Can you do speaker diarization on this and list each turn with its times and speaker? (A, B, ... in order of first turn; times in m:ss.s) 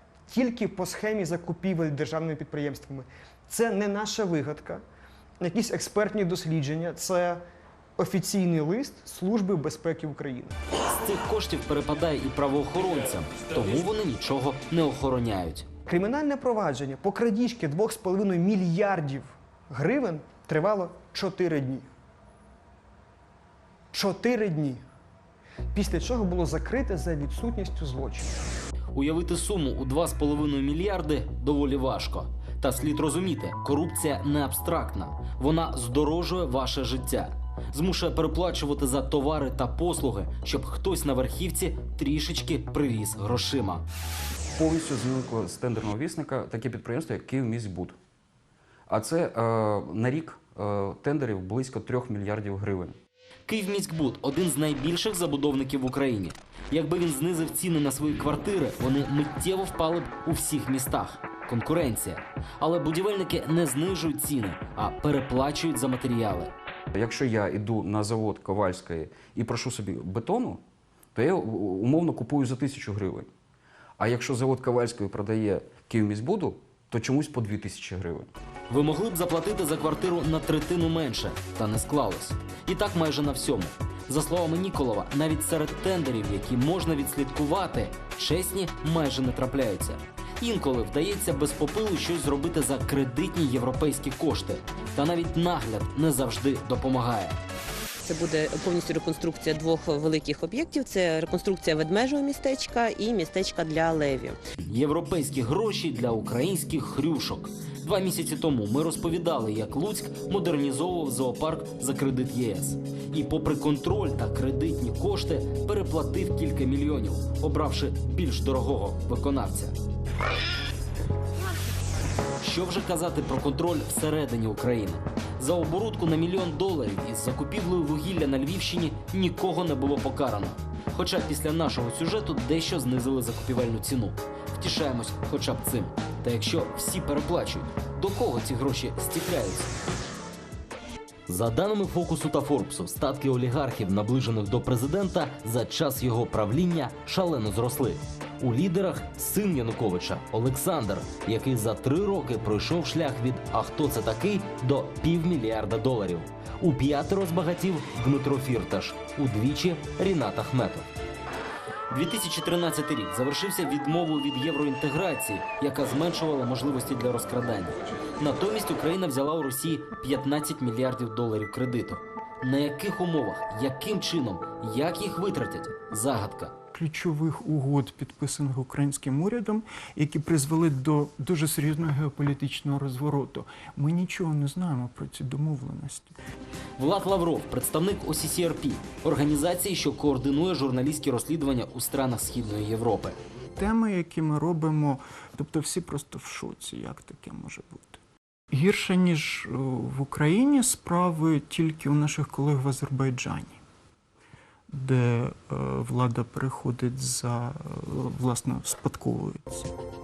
0:00.3-0:04.8 A
0:05.4-0:07.4 A
0:08.0-0:10.5 A
0:10.9-0:15.6 B
0:15.9-0:21.9 A
0:23.9-0:24.8 A
0:25.7-0:28.3 A
0:28.9-0:43.8 B
0:44.5-0:48.0 C
0:48.9-0:53.0 C
0:53.5-1:06.5 B
1:06.9-1:10.6 C
1:11.1-1:13.3 C
1:14.0-1:18.3 C
1:18.7-1:37.4 B
1:38.0-1:44.4 D
1:44.6-1:59.8 B
2:02.4-2:19.7 B
2:21.3-2:40.9 B
2:41.9-2:56.5 B
2:56.7-3:06.1 E
3:06.8-3:13.2 B
3:13.6-3:18.0 E
3:18.5-3:23.6 E
3:24.7-3:29.7 E